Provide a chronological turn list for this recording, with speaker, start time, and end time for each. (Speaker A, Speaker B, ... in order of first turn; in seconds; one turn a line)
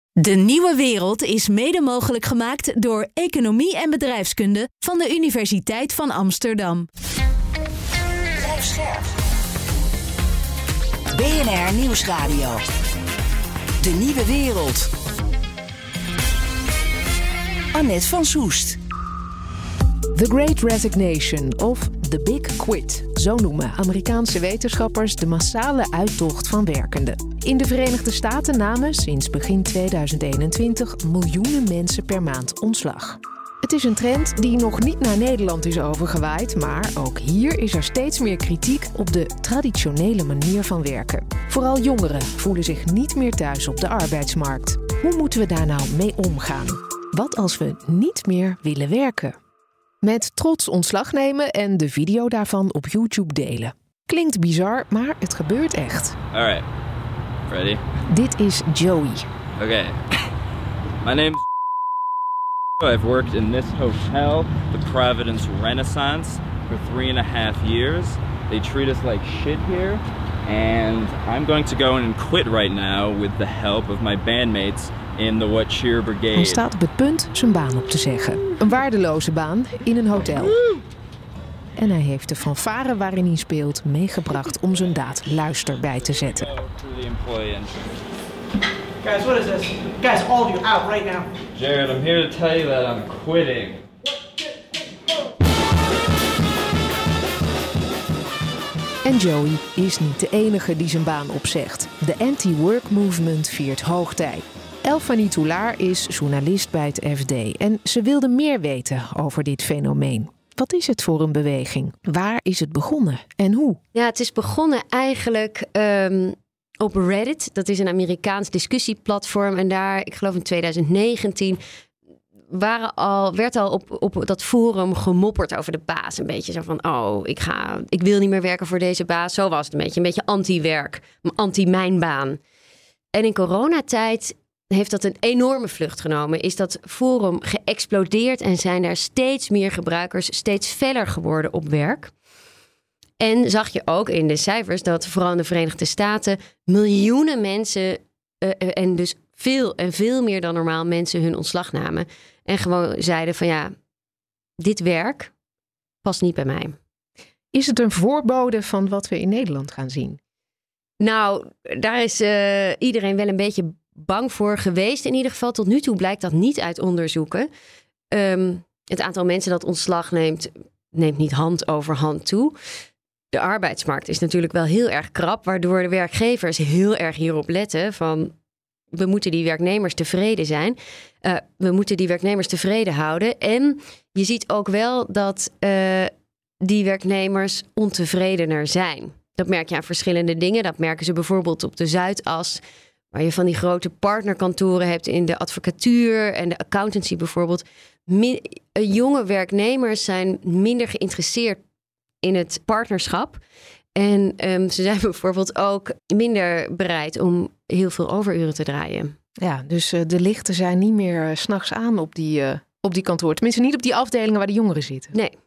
Speaker A: 0.2-6.9
Speaker B: 8.4-9.1
Speaker B: 11.1-12.6
Speaker B: 13.8-14.9
Speaker B: 17.7-18.8
Speaker C: 20.1-49.4
Speaker C: 50.0-56.2
Speaker D: 56.3-56.7
Speaker D: 57.5-57.8
Speaker C: 58.1-59.2
Speaker D: 59.6-60.0
Speaker D: 61.0-61.4
Speaker D: 62.8-76.6
Speaker C: 76.3-80.6
Speaker C: 81.8-86.5
Speaker D: 86.3-88.0
Speaker E: 89.0-91.3
Speaker D: 91.5-93.9
Speaker C: 99.0-113.8
Speaker F: 114.0-121.6
Speaker F: 122.5-132.4
Speaker F: 133.1-142.1
Speaker F: 143.2-153.7
Speaker F: 154.6-155.3
Speaker F: 156.0-156.8
Speaker C: 157.5-160.2
Speaker F: 161.0-167.5
Speaker F: 168.1-172.6
Speaker F: 173.3-178.3
Speaker F: 178.9-192.6
Speaker F: 193.1-201.6
Speaker F: 202.2-203.4
Speaker F: 203.9-209.1
Speaker C: 209.4-215.1